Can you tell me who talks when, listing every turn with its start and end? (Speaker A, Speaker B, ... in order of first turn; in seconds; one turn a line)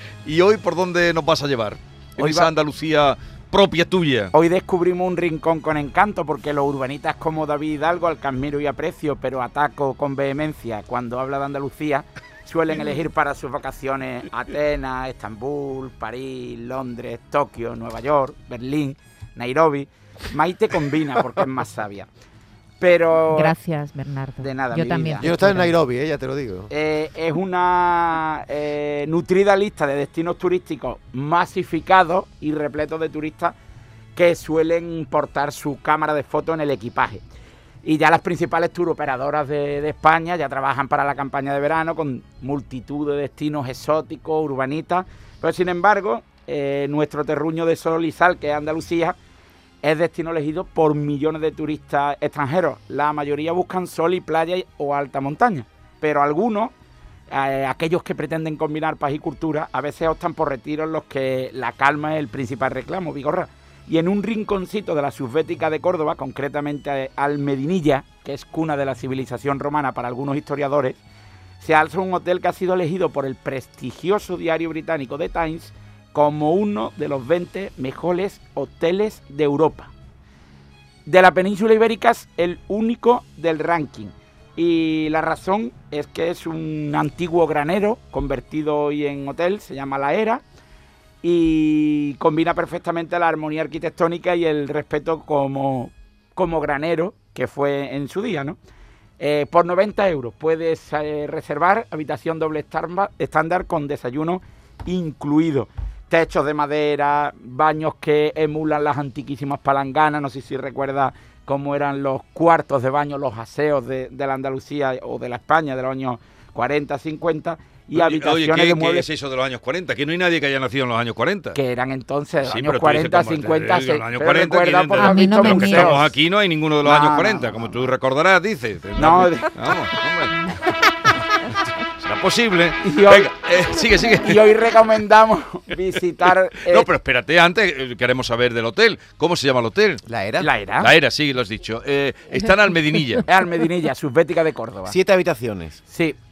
Speaker A: 0.2-4.3
Speaker B: 2.2-2.5
Speaker B: 4.3-22.1
Speaker B: 22.8-23.5
Speaker C: 23.3-25.7
Speaker B: 24.4-25.3
Speaker D: 25.2-26.7
Speaker B: 26.7-33.5
Speaker B: 34.1-37.2
Speaker B: 37.8-49.1
Speaker B: 49.8-56.7
Speaker B: 57.3-71.0
Speaker B: 71.6-79.9
Speaker B: 81.0-90.4
Speaker B: 91.2-98.6
Speaker B: 99.2-119.1
Speaker A: 117.9-121.6
Speaker B: 121.5-126.1
Speaker A: 122.4-130.4
Speaker C: 125.0-126.0
Speaker B: 126.8-127.6
Speaker B: 129.0-129.5
Speaker A: 132.0-134.5
Speaker B: 132.8-133.3
Speaker B: 134.2-136.9
Speaker A: 136.7-140.0
Speaker D: 140.1-140.5
Speaker B: 140.4-140.9
Speaker A: 140.8-143.2
Speaker B: 143.3-144.9
Speaker D: 144.9-145.8
Speaker B: 145.9-146.2